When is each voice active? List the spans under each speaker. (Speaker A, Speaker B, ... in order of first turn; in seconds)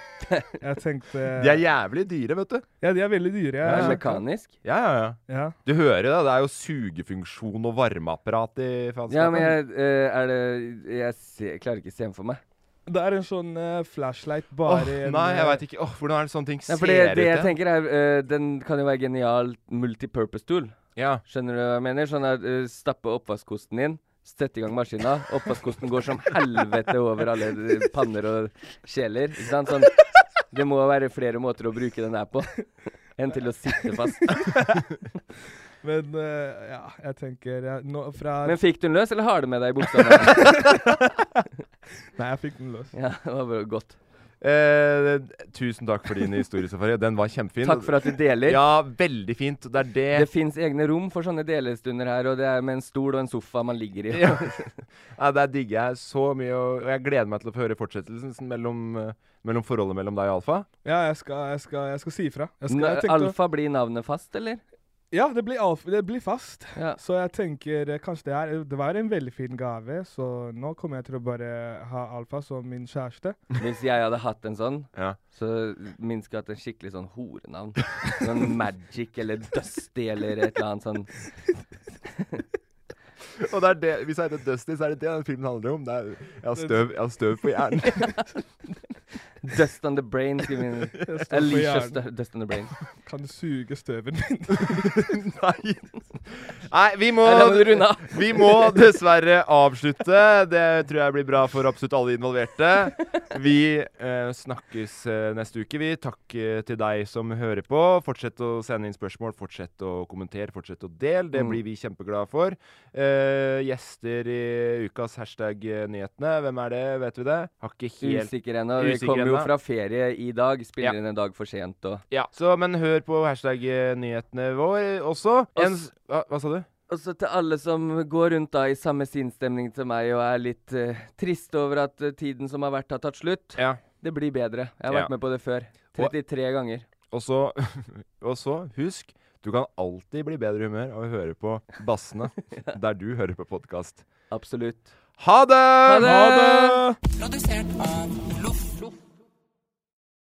Speaker A: 0.6-1.6, 2.8-4.2, 5.3-5.6, 12.9-15.6, 34.3-34.8, 35.8-38.6, 40.2-41.4, 42.2-42.9, 60.8-63.4, 65.1-73.4, 86.6-86.8, 91.0-92.0, 93.0-95.2, 146.0-147.0
Speaker B: 1.3-2.7, 3.7-4.0, 4.6-9.6, 14.7-17.5, 21.0-21.2, 44.4-50.3, 54.1-60.7, 83.4-88.2, 94.6-119.5, 122.1-126.7, 137.1-144.1, 145.2-146.4
Speaker C: 3.6-4.5, 9.1-12.4, 16.7-30.0, 30.5-32.6, 33.1-34.5, 38.4-40.7, 42.9-44.0, 47.6-48.6, 50.1-54.7, 62.7-64.6, 73.6-81.1, 89.4-92.7, 97.2-98.8, 118.0-122.0, 125.6-125.9, 126.9-136.9, 144.3-144.9, 145.9-146.8